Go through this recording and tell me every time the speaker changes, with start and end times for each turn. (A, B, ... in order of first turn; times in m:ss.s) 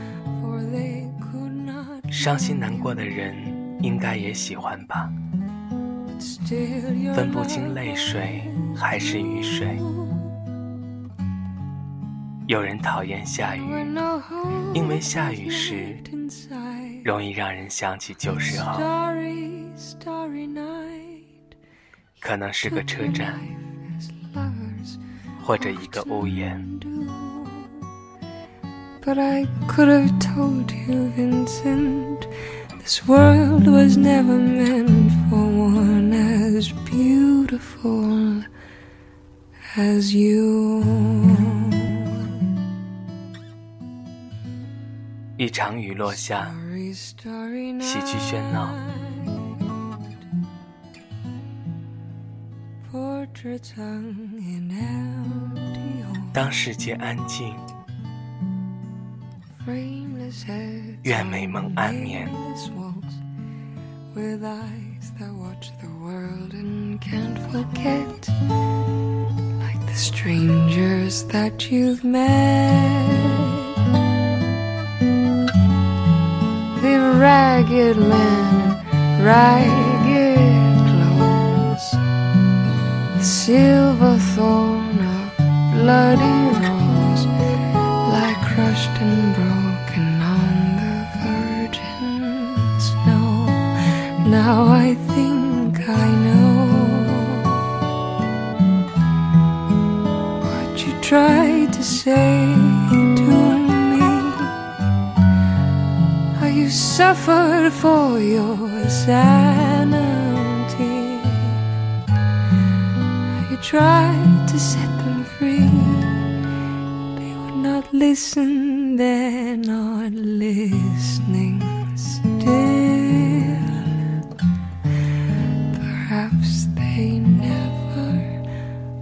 0:00.3-0:03.0 A
0:02.1-0:05.1 B
0:06.1-0:10.3 A
0:07.1-0:09.8 B
0:12.5-0:13.9 B
0:13.5-0:17.1 A
0:14.7-0:16.0 B
0:17.0-0:18.9 B
0:18.4-0:21.4 A
0:22.2-0:23.4 B
0:22.6-0:25.0 A
0:25.4-0:26.7 B
0:25.6-0:27.9 A
0:29.0-0:38.5 A
0:39.7-0:42.4 A
0:45.4-0:46.5 B
0:46.1-0:49.9 A
0:47.8-0:48.8 B
0:52.8-0:56.4 A
0:56.3-0:57.6 B
0:59.5-1:03.2 A
1:01.0-1:02.4 B
1:04.1-1:08.4 A
1:09.6-1:13.8 A
1:16.7-1:22.0 A
1:23.1-1:27.3 A
1:28.0-1:37.6 A
1:40.4-1:44.6 A
1:46.3-1:51.6 A
1:53.2-1:56.4 A
1:57.1-2:03.9 A
2:05.7-2:08.4 A